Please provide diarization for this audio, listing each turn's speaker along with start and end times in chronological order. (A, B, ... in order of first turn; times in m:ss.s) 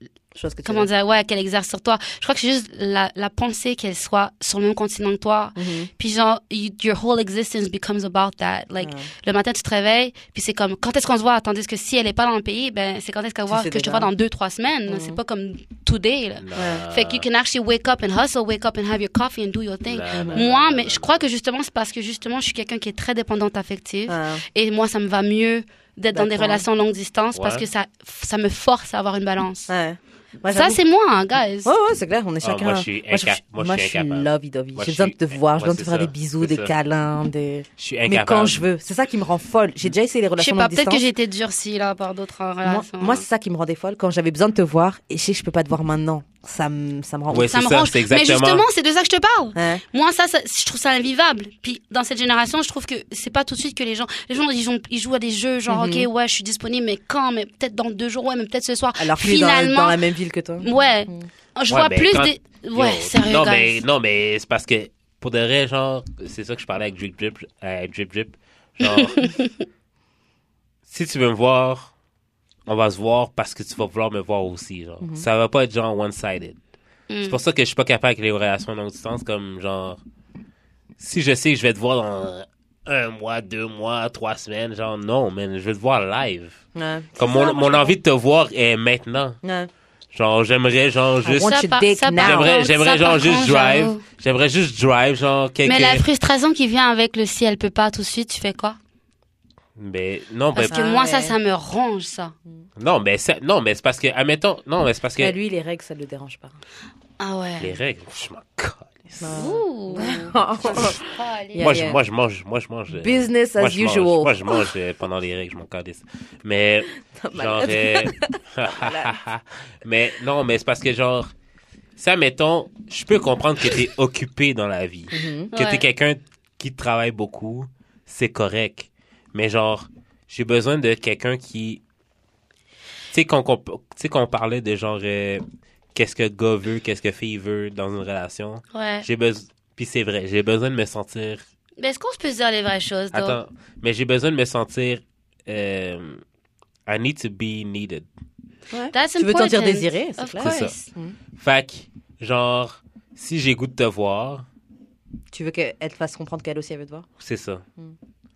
0:00.4-0:00.9 A
0:00.6-0:29.7 B
0:05.6-0:05.9 A
0:08.8-0:09.1 A
0:13.5-0:14.1 A
0:14.9-0:15.2 A
0:16.4-0:17.3 C
0:16.6-0:16.8 A
0:19.9-0:21.2 C
0:20.1-0:20.4 A
0:24.1-0:24.4 A
0:26.1-0:26.6 A
0:27.3-0:27.6 C
0:29.7-0:30.8 A
0:30.5-0:31.7 B
0:31.6-0:41.0 A
0:32.4-0:36.7 C
0:37.8-0:38.6 C
0:40.4-0:43.2 B
0:42.6-0:47.5 A
0:47.3-0:48.7 C
0:47.4-1:00.0 B
0:49.6-0:49.8 A
0:55.7-0:56.1 A
0:59.0-1:01.3 A
1:00.6-1:03.8 B
1:01.7-1:09.2 C
1:08.8-1:09.6 B
1:10.9-1:11.9 C
1:12.7-1:16.6 C
1:17.1-1:17.4 B
1:17.2-1:20.0 C
1:21.0-1:26.6 C
1:26.8-1:28.0 A
1:27.2-1:29.4 C
1:29.4-1:29.7 A
1:30.1-1:31.6 C
1:31.2-1:32.5 A
1:31.4-1:34.0 B
1:32.2-1:36.1 C
1:35.6-1:38.8 B
1:39.8-1:40.8 C
1:40.5-1:42.4 B
1:40.7-1:41.4 A
1:42.8-1:45.4 C
1:45.2-1:46.5 A
1:47.2-1:47.8 B
1:47.6-1:49.5 C
1:49.2-1:51.0 A
1:49.4-1:51.8 B
1:51.5-1:52.0 A
1:51.6-2:01.3 C
1:52.9-1:54.7 A
1:57.1-1:59.2 A
2:02.0-2:11.8 C
2:05.1-2:05.5 A
2:05.5-2:05.8 B
2:13.1-2:15.4 C
2:16.0-2:21.4 C
2:18.7-2:19.1 B
2:21.8-2:23.4 B
2:23.1-2:26.2 C
2:26.9-2:28.1 C
2:28.7-2:31.2 A
2:28.9-2:30.9 B
2:30.4-2:30.7 C
2:31.4-2:34.5 C
2:35.3-2:37.1 A
2:37.2-2:37.6 C